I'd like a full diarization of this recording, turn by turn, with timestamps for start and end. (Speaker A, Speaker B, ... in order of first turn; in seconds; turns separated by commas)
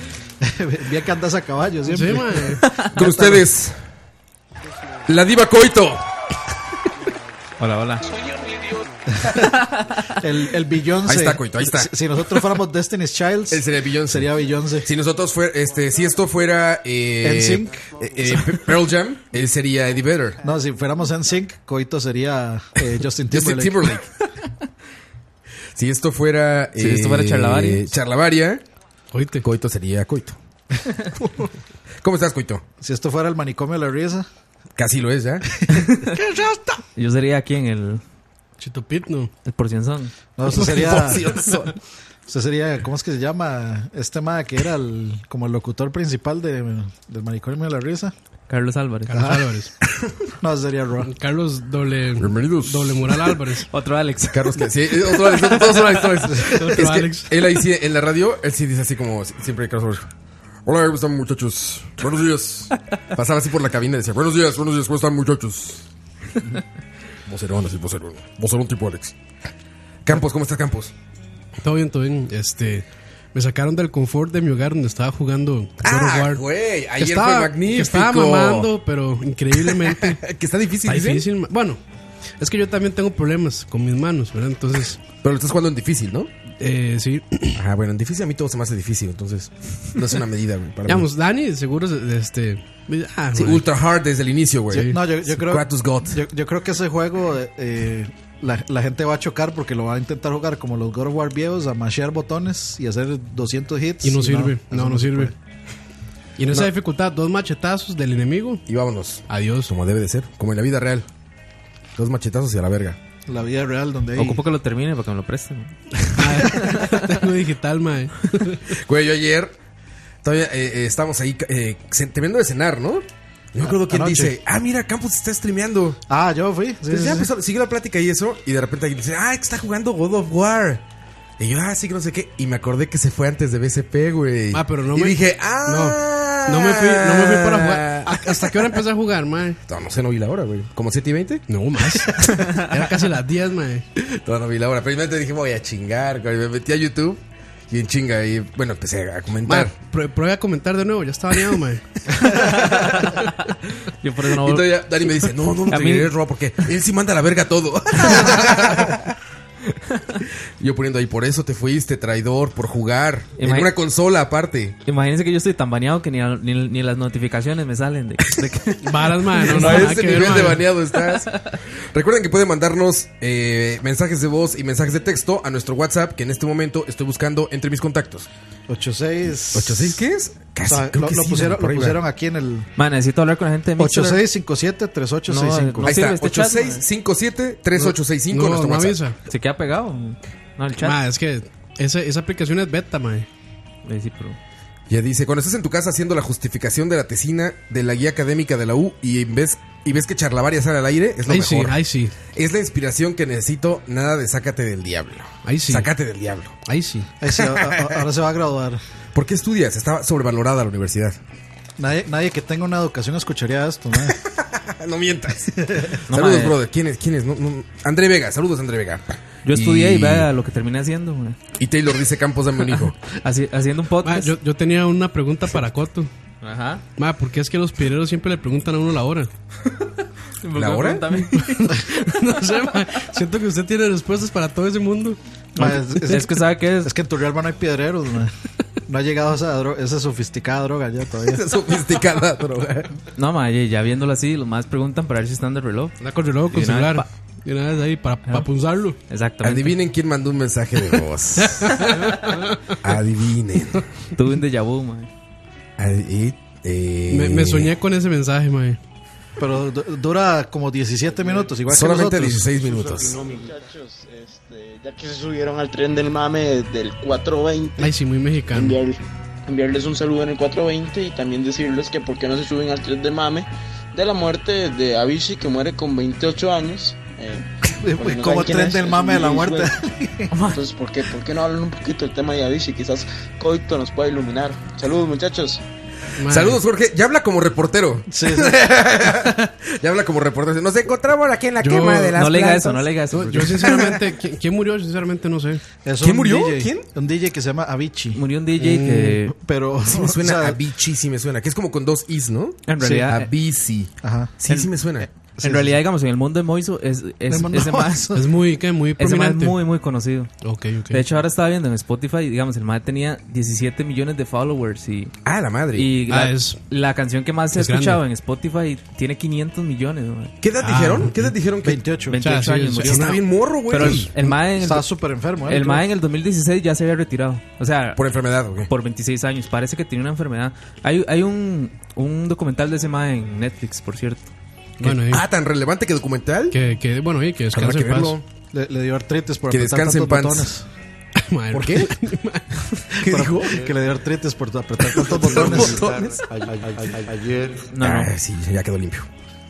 Speaker A: 0.4-3.5, Speaker B: 1.9-2.6, Speaker C: 2.6-2.9, Speaker D: 2.9-3.8, Speaker D: 5.1-6.1, Speaker C: 7.6-8.0, Speaker A: 9.2-9.4, Speaker A: 10.1-14.9, Speaker D: 11.1-12.4, Speaker D: 13.5-20.4, Speaker A: 17.2-17.9, Speaker A: 20.4-24.0, Speaker D: 23.3-24.1, Speaker D: 25.8-28.6, Speaker C: 26.8-27.9, Speaker B: 29.1-29.4, Speaker D: 29.4-30.4, Speaker D: 32.0-32.6, Speaker A: 32.8-34.3, Speaker D: 34.8-35.5, Speaker C: 35.7-36.1, Speaker A: 36.1-36.8, Speaker C: 37.0-38.0, Speaker B: 38.6-39.3, Speaker C: 39.4-40.1, Speaker A: 40.4-41.2, Speaker D: 40.5-41.7, Speaker A: 42.3-48.1, Speaker C: 48.5-49.1, Speaker B: 49.1-49.7, Speaker A: 49.1-49.5, Speaker A: 50.4-51.1, Speaker B: 51.1-53.7, Speaker D: 52.2-53.3, Speaker C: 53.7-54.6, Speaker D: 54.3-60.1, Speaker C: 55.5-55.8, Speaker B: 56.4-57.3, Speaker D: 60.6-65.8, Speaker D: 67.3-69.1, Speaker D: 70.0-70.9, Speaker B: 71.6-76.4, Speaker D: 75.8-78.7, Speaker B: 77.0-80.2, Speaker D: 79.6-81.2, Speaker B: 80.8-81.8, Speaker B: 82.4-85.0, Speaker D: 85.2-86.3, Speaker B: 86.6-87.6, Speaker D: 87.5-91.1, Speaker B: 90.9-93.6, Speaker D: 93.3-96.2, Speaker A: 94.7-105.3, Speaker B: 94.7-95.0, Speaker B: 104.0-105.3, Speaker B: 106.4-108.6, Speaker D: 108.7-111.1, Speaker B: 109.3-109.7, Speaker D: 112.0-113.0, Speaker A: 113.3-114.4, Speaker C: 114.2-117.0, Speaker B: 116.1-118.6, Speaker D: 118.8-119.6, Speaker D: 120.2-126.0, Speaker A: 123.8-124.3, Speaker A: 126.1-127.3, Speaker D: 126.9-130.8, Speaker D: 131.4-138.6, Speaker B: 134.5-139.6, Speaker D: 139.7-141.4, Speaker B: 141.5-143.8, Speaker D: 144.1-149.7, Speaker B: 149.4-151.8, Speaker C: 154.0-154.7, Speaker D: 154.4-159.1, Speaker C: 155.7-156.1, Speaker C: 159.9-160.2, Speaker D: 160.6-164.8, Speaker C: 163.4-163.7, Speaker C: 164.8-169.9, Speaker B: 168.8-170.7, Speaker D: 169.4-178.3, Speaker A: 178.7-180.0, Speaker D: 179.5-182.0, Speaker A: 180.7-182.7, Speaker C: 182.8-184.2, Speaker A: 183.8-185.9, Speaker C: 185.3-186.8, Speaker D: 185.8-189.0, Speaker B: 187.8-189.2, Speaker C: 189.3-191.0, Speaker B: 190.8-193.3, Speaker C: 193.8-194.4, Speaker D: 194.9-201.8, Speaker B: 201.2-202.1, Speaker D: 202.3-206.6, Speaker B: 205.4-205.9, Speaker B: 206.7-207.1, Speaker A: 207.2-208.8, Speaker D: 207.3-208.1, Speaker D: 209.1-211.2, Speaker A: 211.8-214.2, Speaker D: 214.1-220.3, Speaker C: 216.1-216.6, Speaker C: 219.4-221.4, Speaker D: 221.6-223.0, Speaker C: 223.2-224.3, Speaker B: 224.0-226.1, Speaker C: 226.4-226.8, Speaker B: 227.0-229.3, Speaker C: 230.4-232.2, Speaker D: 230.5-231.1, Speaker B: 231.5-235.2, Speaker A: 235.6-238.3, Speaker C: 236.0-236.9, Speaker A: 238.9-241.5, Speaker D: 241.2-242.9, Speaker C: 243.1-246.0, Speaker B: 246.0-249.0, Speaker C: 246.5-247.0, Speaker C: 249.1-249.7, Speaker D: 249.4-251.9, Speaker B: 251.5-252.5, Speaker D: 252.8-253.8, Speaker C: 254.1-255.1, Speaker D: 255.8-257.7, Speaker B: 257.1-258.8, Speaker A: 259.4-262.4, Speaker E: 261.2-261.6, Speaker D: 261.7-263.2, Speaker E: 262.4-263.7, Speaker F: 263.2-267.9, Speaker B: 267.8-268.8, Speaker F: 268.5-279.8, Speaker A: 277.8-280.3, Speaker C: 280.3-280.6, Speaker F: 280.4-285.6, Speaker B: 286.2-286.6, Speaker D: 286.3-292.9, Speaker A: 288.1-288.7, Speaker B: 291.6-292.2, Speaker C: 292.1-293.8, Speaker B: 293.1-295.6, Speaker D: 293.6-293.9, Speaker A: 295.8-298.2, Speaker D: 296.0-296.9, Speaker C: 298.1-299.3, Speaker B: 298.6-299.2, Speaker A: 299.3-300.6, Speaker D: 299.9-305.1, Speaker C: 302.7-303.3, Speaker A: 304.0-305.8, Speaker C: 305.4-308.1, Speaker A: 307.3-308.4, Speaker B: 308.1-309.6, Speaker C: 309.0-310.3, Speaker B: 310.4-311.1, Speaker C: 310.9-315.1, Speaker D: 315.2-315.9, Speaker C: 315.7-320.3, Speaker B: 316.1-316.6, Speaker B: 317.5-318.0, Speaker D: 320.4-321.8, Speaker B: 320.6-321.3, Speaker A: 321.6-322.8, Speaker C: 322.1-324.8, Speaker B: 322.2-323.2, Speaker D: 322.8-324.1, Speaker B: 323.7-324.3, Speaker A: 324.6-325.9, Speaker C: 325.4-328.0, Speaker D: 327.9-328.7, Speaker C: 328.7-334.3, Speaker B: 334.8-335.2, Speaker D: 334.8-336.6, Speaker B: 336.5-338.1, Speaker D: 337.5-338.2, Speaker A: 338.5-340.7, Speaker D: 339.5-340.5, Speaker B: 341.2-342.4, Speaker D: 341.5-341.9, Speaker D: 343.0-343.6, Speaker A: 343.0-345.9, Speaker E: 343.5-343.8, Speaker D: 344.9-346.2, Speaker E: 345.1-347.7, Speaker C: 347.7-348.1, Speaker D: 347.8-349.1